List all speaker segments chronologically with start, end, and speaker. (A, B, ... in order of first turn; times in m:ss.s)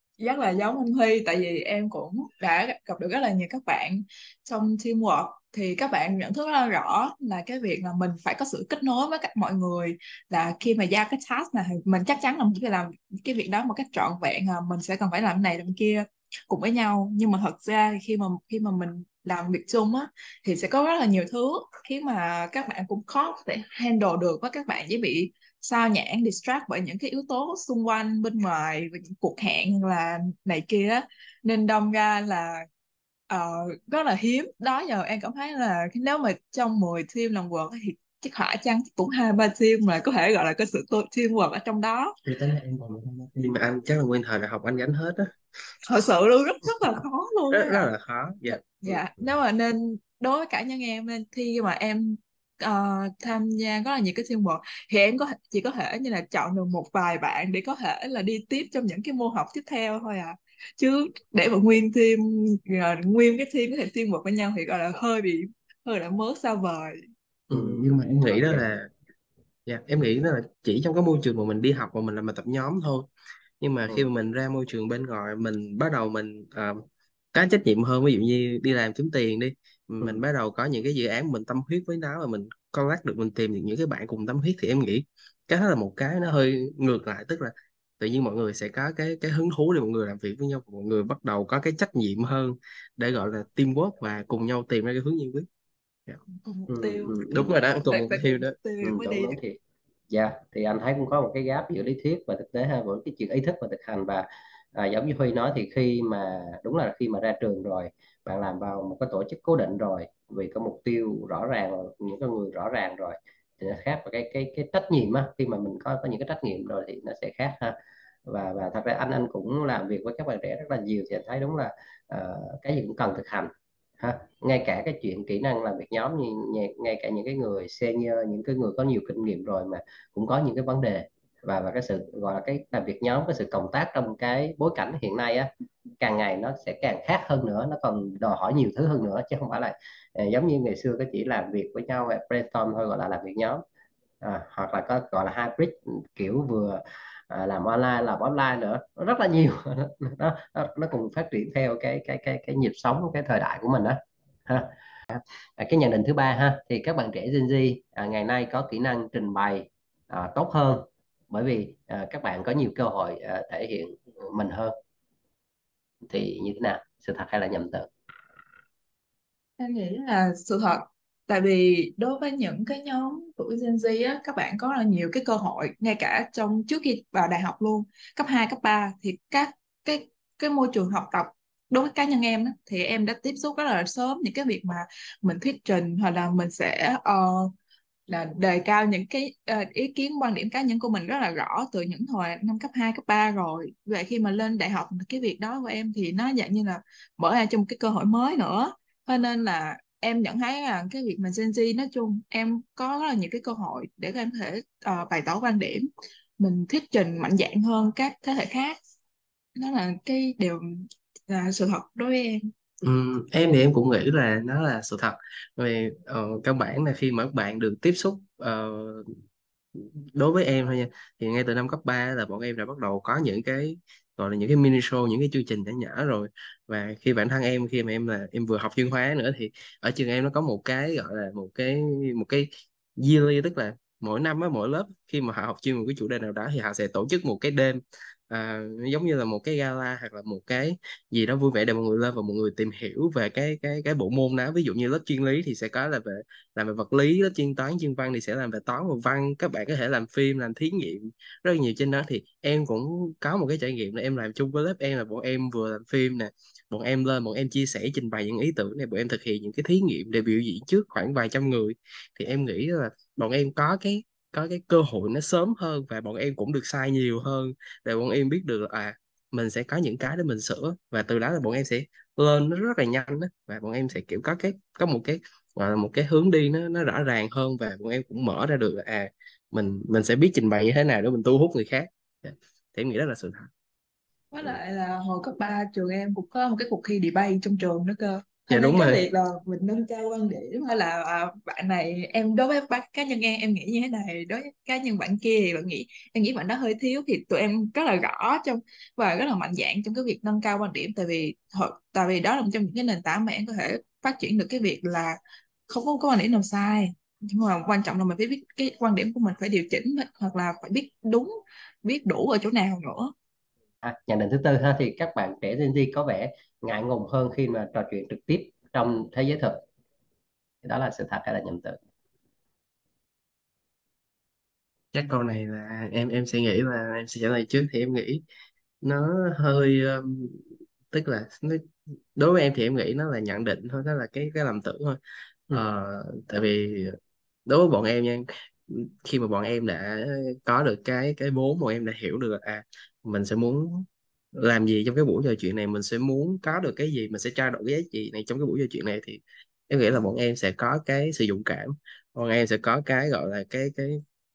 0:00.2-0:32.7 A
0:33.3-0:42.2 A
0:42.2-0:45.3 B
0:45.9-0:47.9 A
0:47.5-0:48.8 B
0:48.8-1:07.0 A
1:07.5-1:08.9 B
1:07.5-1:08.6 C
1:09.7-1:13.1 B
1:13.6-1:16.8 B
1:17.3-1:35.5 B
1:36.4-1:39.4 A
1:36.7-1:37.5 C
1:37.3-1:38.5 B
1:38.8-1:39.6 C
1:40.1-2:23.6 C
2:24.2-2:44.7 C
2:46.1-2:47.9 C
2:49.6-3:07.5 A
3:08.1-3:25.9 A
3:26.4-3:28.8 A
3:29.6-3:32.5 A
3:32.8-3:39.1 B
3:39.8-4:43.5 B
4:44.3-5:05.2 A
4:48.5-4:49.0 B
5:05.7-5:13.1 A
5:13.8-5:19.6 C
5:20.6-5:21.8 C
5:24.9-5:28.2 B
5:28.8-5:31.6 B
5:32.2-5:35.0 B
5:35.5-5:54.0 B